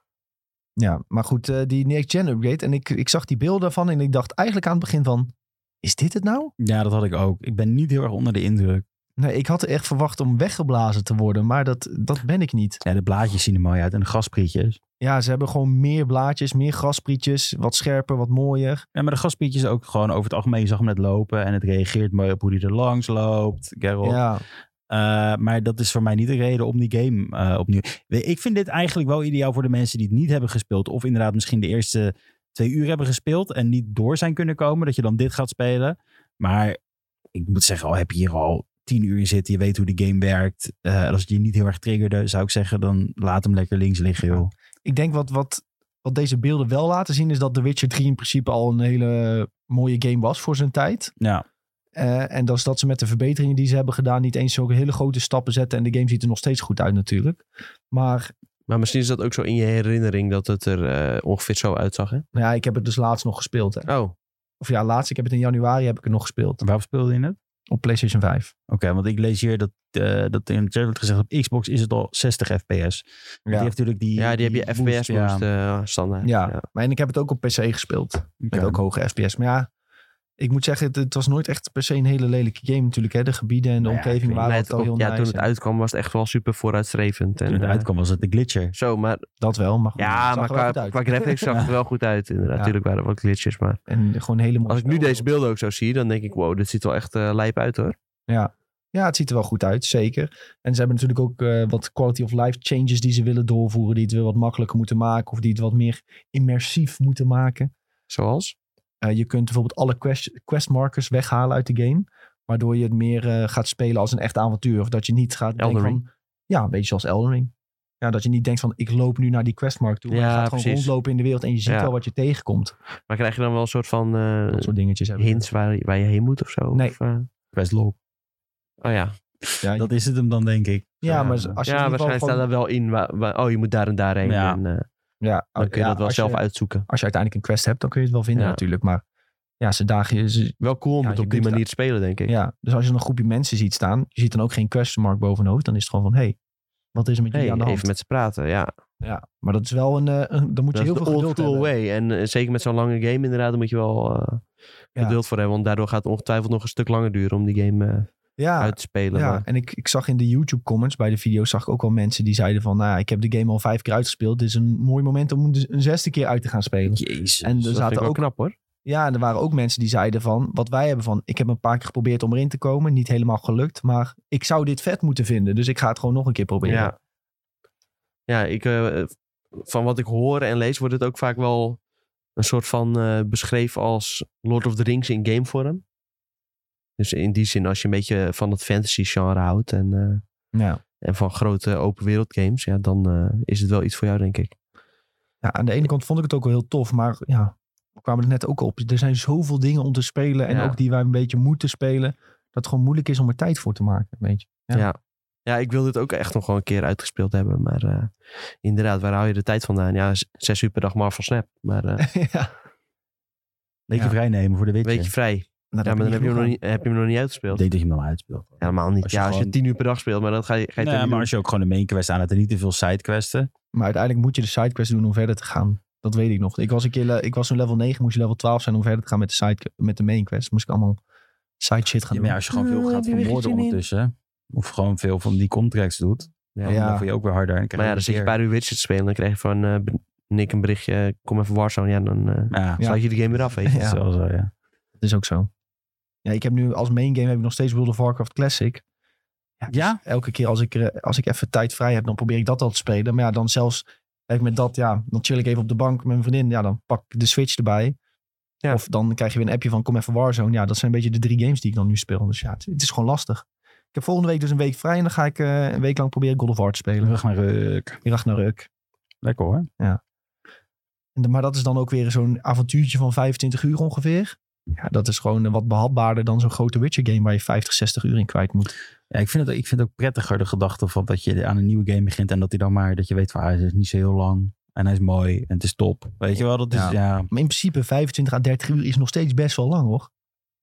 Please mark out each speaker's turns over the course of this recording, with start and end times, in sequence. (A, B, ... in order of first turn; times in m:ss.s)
0:00.8-0:06.5 A
0:06.6-0:08.8 B
0:09.2-0:12.8 A
0:12.8-0:14.8 B
0:15.0-0:18.8 A
0:19.0-0:24.2 B
0:24.0-0:24.4 A
0:24.9-0:36.8 B
0:37.3-0:44.5 B
0:44.3-0:51.1 A
0:52.0-0:58.3 A
0:58.7-1:02.2 C
1:02.3-1:03.9 A
1:03.9-1:04.1 C
1:04.6-1:06.6 A
1:06.6-1:07.4 B
1:07.7-1:08.5 A
1:08.7-1:15.4 B
1:13.5-1:13.7 A
1:14.2-1:16.6 C
1:16.2-1:19.7 A
1:18.4-1:18.8 B
1:20.4-1:25.5 A
1:23.8-1:24.4 B
1:24.4-1:27.9 C
1:27.5-1:28.7 B
1:28.7-1:29.2 C
1:29.4-1:31.4 A
1:30.0-1:33.8 C
1:33.9-1:35.3 A
1:34.7-1:38.0 C
1:38.3-1:47.7 A
1:48.1-1:48.6 C
1:49.0-2:02.7 A
1:55.6-1:56.0 C
2:00.1-2:00.9 C
2:03.1-2:07.3 C
2:04.5-2:05.4 A
2:07.5-2:08.0 B
2:08.8-2:09.1 C
2:09.6-2:09.9 A
2:09.8-2:11.6 B
2:11.0-2:12.5 A
2:11.2-2:14.8 C
2:14.2-2:14.6 B
2:15.2-2:19.0 A
2:15.6-2:16.9 C
2:19.6-2:21.6 A
2:20.6-2:22.3 C
2:22.3-2:26.4 A
2:27.0-2:27.9 A
2:27.3-2:28.7 C
2:29.0-2:31.7 A
2:30.7-2:34.4 C
2:35.0-2:39.4 C
2:38.4-2:48.2 A
2:46.9-2:47.7 B
2:47.8-2:48.6 C
2:48.8-2:56.9 A
2:56.6-2:57.0 C
2:58.3-3:01.8 C
3:02.4-3:05.8 C
3:07.0-3:10.2 C
3:10.5-3:10.8 A
3:11.0-3:14.5 C
3:15.4-3:24.9 A
3:20.5-3:20.8 C
3:24.7-3:32.1 C
3:32.0-3:32.5 A
3:33.9-3:35.1 B
3:34.8-3:37.6 C
3:35.7-3:36.6 A
3:37.5-3:39.5 B
3:38.6-3:41.3 C
3:40.8-3:43.5 B
3:43.7-3:51.0 A
3:51.6-3:52.4 A
3:52.1-3:58.3 B
3:52.5-3:53.8 C
3:56.7-3:57.1 A
3:57.8-4:03.8 C
4:02.5-4:02.8 B
4:03.7-4:04.0 A
4:03.7-4:04.5 B
4:05.0-4:05.5 A
4:06.2-4:08.8 A
4:09.6-4:18.0 A
4:09.7-4:10.0 B
4:18.7-4:27.2 A
4:27.0-4:28.0 B
4:28.0-4:28.7 A
4:29.2-4:29.7 B
4:31.2-4:38.7 A
4:39.1-4:47.3 B
4:46.7-4:50.1 A